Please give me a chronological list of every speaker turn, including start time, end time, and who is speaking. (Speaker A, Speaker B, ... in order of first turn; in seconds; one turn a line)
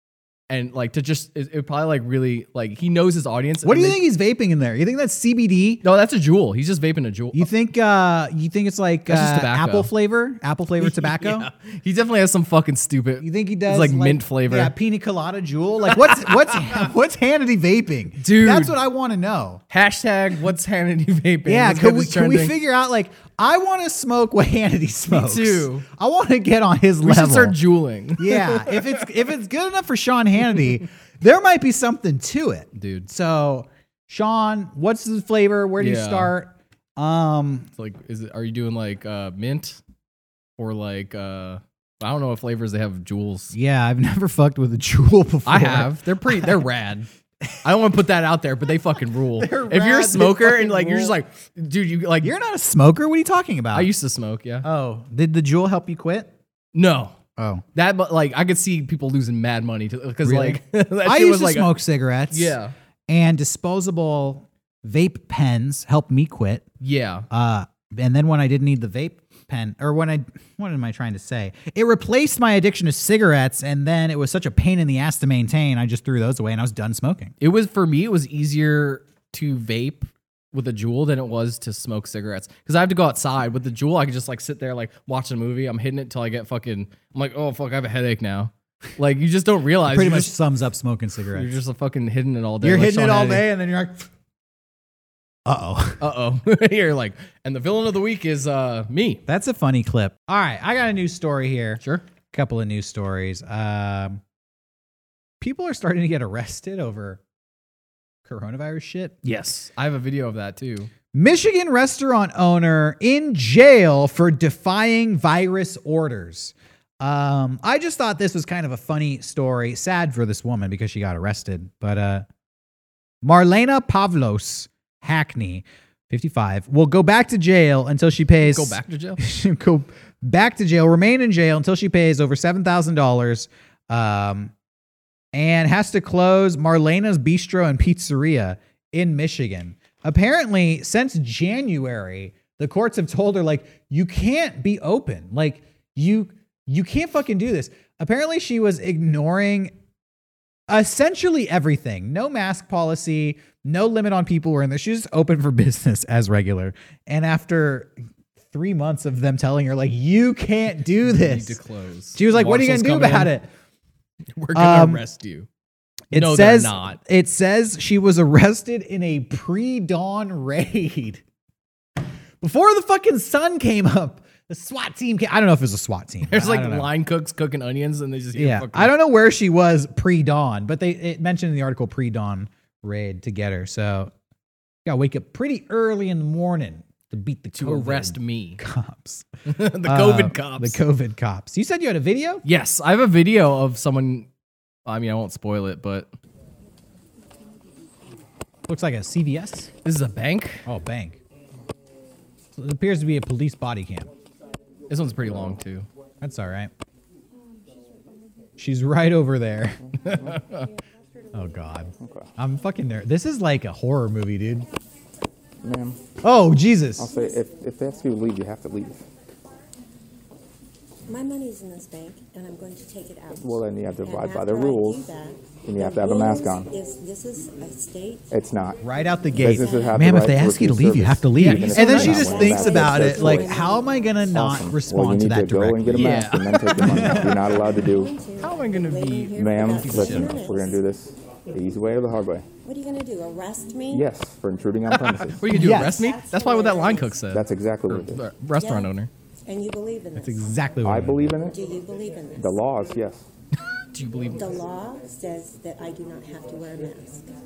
Speaker A: 0.5-4.0
Speaker B: 3.6-5.8
Speaker A: 5.8-7.5
Speaker B: 7.3-11.5
Speaker A: 9.1-9.9
Speaker A: 10.8-14.7
Speaker B: 13.2-19.6
Speaker A: 15.8-16.9
Speaker A: 18.2-18.8
Speaker A: 19.7-22.6
Speaker B: 21.4-27.6
Speaker A: 25.1-25.9
Speaker A: 27.0-29.0
Speaker B: 28.2-37.7
Speaker A: 32.7-33.1
Speaker A: 35.8-36.3
Speaker A: 37.8-39.8
Speaker A: 40.6-43.5
Speaker B: 43.5-46.6
Speaker A: 45.5-47.1
Speaker A: 47.6-52.3
Speaker B: 49.4-51.2
Speaker B: 52.2-53.9
Speaker A: 53.7-54.6
Speaker B: 54.6-56.3
Speaker A: 56.7-57.2
Speaker B: 57.4-57.6
Speaker A: 57.7-61.8
Speaker B: 60.2-62.6
Speaker A: 62.3-62.7
Speaker B: 63.1-66.6
Speaker A: 66.8-67.3
Speaker B: 67.3-77.3
Speaker A: 77.4-90.3
Speaker B: 89.8-91.6
Speaker A: 91.3-93.5
Speaker B: 92.6-94.1
Speaker B: 95.5-96.0
Speaker A: 96.0-99.2
Speaker B: 99.3-104.2
Speaker A: 101.8-102.0
Speaker B: 105.4-107.2
Speaker B: 108.2-109.2
Speaker A: 109.2-110.9
Speaker B: 111.1-122.2
Speaker B: 123.2-134.5
Speaker A: 128.4-129.2
Speaker B: 135.3-149.7
Speaker B: 150.7-157.9
Speaker B: 158.5-161.6
Speaker A: 161.0-163.3
Speaker B: 162.1-163.5
Speaker A: 164.3-165.5
Speaker B: 164.5-165.0
Speaker A: 166.1-167.0
Speaker B: 166.1-171.2
Speaker B: 172.4-176.9
Speaker A: 176.3-178.9
Speaker B: 178.3-184.1
Speaker B: 184.8-189.2
Speaker A: 187.5-188.6
Speaker A: 189.4-190.8
Speaker B: 189.8-192.4
Speaker A: 192.4-194.3
Speaker A: 194.8-196.1
Speaker B: 198.7-199.7
Speaker A: 199.8-200.7
Speaker B: 200.6-201.2
Speaker B: 202.6-204.1
Speaker A: 204.9-205.9
Speaker B: 206.2-206.7
Speaker B: 208.6-209.8
Speaker A: 210.0-210.7
Speaker C: 210.1-210.3
Speaker B: 211.3-214.7
Speaker C: 212.0-212.3
Speaker C: 215.6-216.0
Speaker B: 216.2-217.1
Speaker C: 217.0-219.1
Speaker D: 221.1-228.3
Speaker C: 223.3-225.1
Speaker C: 225.6-226.7
Speaker C: 228.3-228.8
Speaker B: 228.8-237.4
Speaker C: 229.3-233.6
Speaker D: 229.5-230.2
Speaker A: 231.4-232.4
Speaker D: 231.8-234.3
Speaker C: 234.3-238.2
Speaker A: 235.9-236.7
Speaker D: 236.7-240.8
Speaker A: 238.4-240.5
Speaker C: 239.3-242.5
Speaker D: 242.6-244.1
Speaker C: 243.9-245.5
Speaker A: 244.9-249.1
Speaker B: 245.5-246.1
Speaker D: 245.6-247.2
Speaker C: 247.3-248.2
Speaker D: 248.5-248.9
Speaker D: 249.4-250.6
Speaker B: 250.2-251.4
Speaker C: 250.8-251.6
Speaker D: 251.4-252.6
Speaker C: 252.3-253.3
Speaker A: 253.9-254.4
Speaker D: 254.3-257.2